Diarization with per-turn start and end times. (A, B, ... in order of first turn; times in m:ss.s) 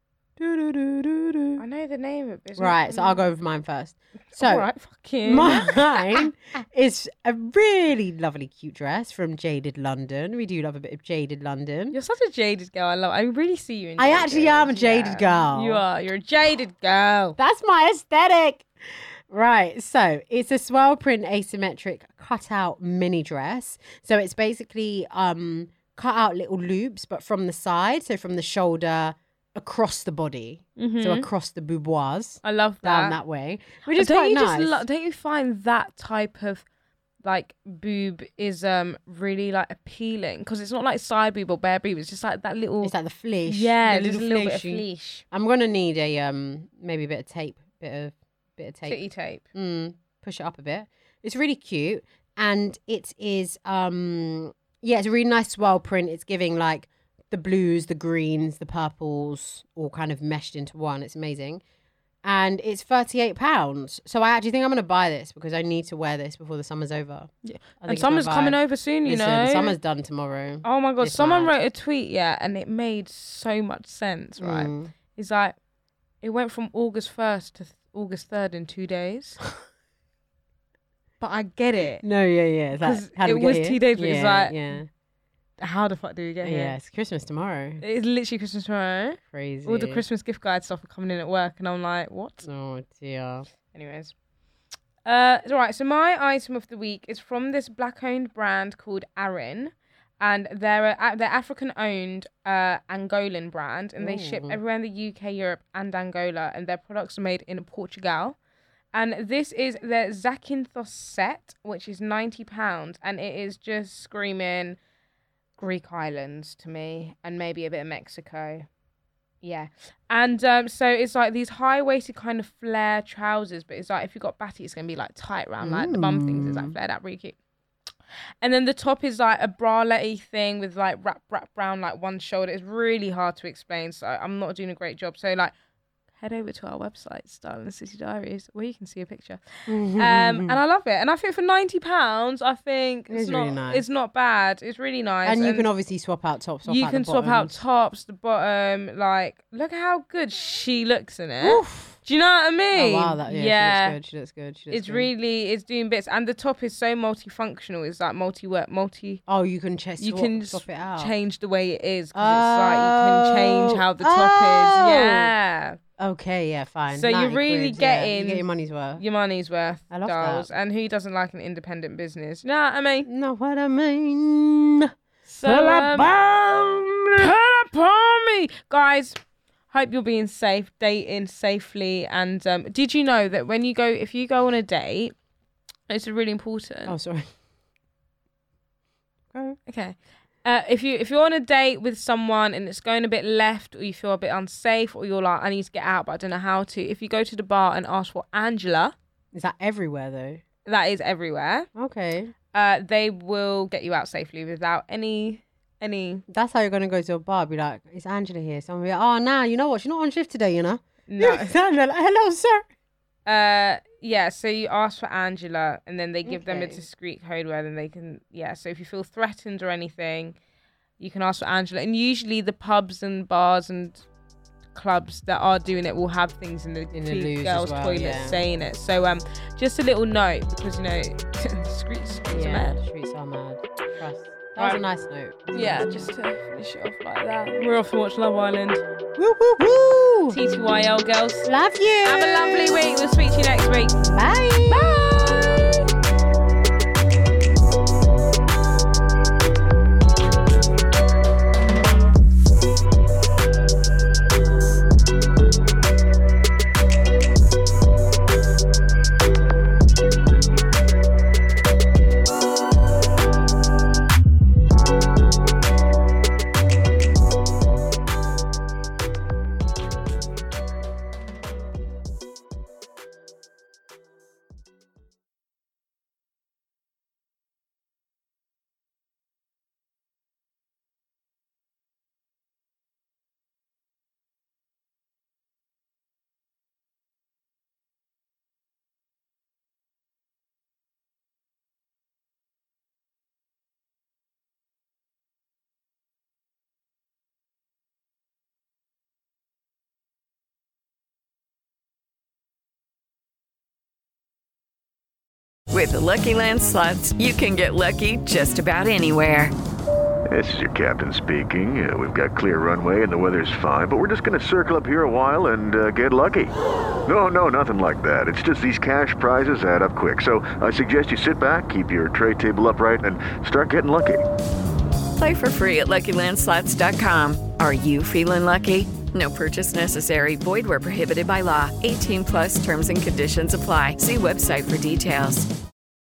0:00.4-0:01.6 A
0:01.6-0:03.2 B
0:02.6-0:04.7 A
0:04.3-0:06.1 B
0:05.2-0:11.9 A
0:11.9-0:17.4 B
0:14.0-0:15.8 A
0:17.4-0:34.8 A
0:30.8-0:31.3 B
0:32.4-0:33.2 B
0:33.9-0:36.6 B
0:37.2-0:42.9 B
0:42.8-0:49.0 A
0:43.5-0:45.2 B
0:48.9-0:49.4 B
0:49.5-1:01.6 A
1:02.2-1:11.5 A
1:07.4-1:09.7 B
1:10.6-1:15.5 B
1:14.4-1:14.9 A
1:16.2-1:19.4 B
1:21.2-1:22.0 B
1:22.0-1:24.9 A
1:22.8-1:24.6 B
1:25.6-1:26.7 B
1:26.4-1:27.8 A
1:27.8-1:32.4 B
1:29.3-1:30.0 A
1:32.4-1:33.5 A
1:33.7-1:34.1 B
1:35.0-1:48.4 B
1:44.0-1:44.6 A
1:48.9-1:54.8 B
1:55.6-1:58.7 B
1:59.4-2:07.4 B
2:05.6-2:06.7 A
2:08.4-2:15.5 B
2:16.2-2:25.7 B
2:19.7-2:20.6 A
2:23.1-2:23.8 A
2:25.2-2:27.6 A
2:26.6-2:34.0 B
2:31.4-2:32.0 A
2:32.7-2:35.1 A
2:34.7-2:39.2 B
2:39.3-2:41.1 A
2:40.0-2:45.8 B
2:42.1-2:45.3 A
2:46.0-2:49.0 A
2:46.9-2:48.4 B
2:49.0-2:53.1 B
2:49.9-2:50.5 A
2:53.0-2:54.9 A
2:55.3-2:56.1 B
2:55.4-2:57.3 A
2:57.2-2:59.2 B
2:59.7-3:05.1 B
3:05.9-3:07.0 B
3:06.8-3:07.3 A
3:09.3-3:09.6 A
3:09.7-3:18.9 B
3:19.3-3:20.4 A
3:20.6-3:21.7 B
3:21.7-3:22.3 A
3:22.5-3:26.2 B
3:26.3-3:32.6 A
3:31.1-3:31.5 B
3:33.2-3:40.4 B
3:36.2-3:36.8 A
3:41.0-3:44.0 B
3:44.7-3:52.8 B
3:46.9-3:48.4 A
3:52.3-3:56.0 A
3:55.5-3:58.8 B
3:59.2-4:00.4 A
4:00.3-4:01.5 B
4:01.4-4:02.8 A
4:02.0-4:04.0 B
4:04.0-4:05.0 A
4:04.7-4:05.9 B
5:05.7-5:09.5 C
5:10.3-5:16.5 D
5:17.0-5:24.2 D
5:25.2-5:35.5 C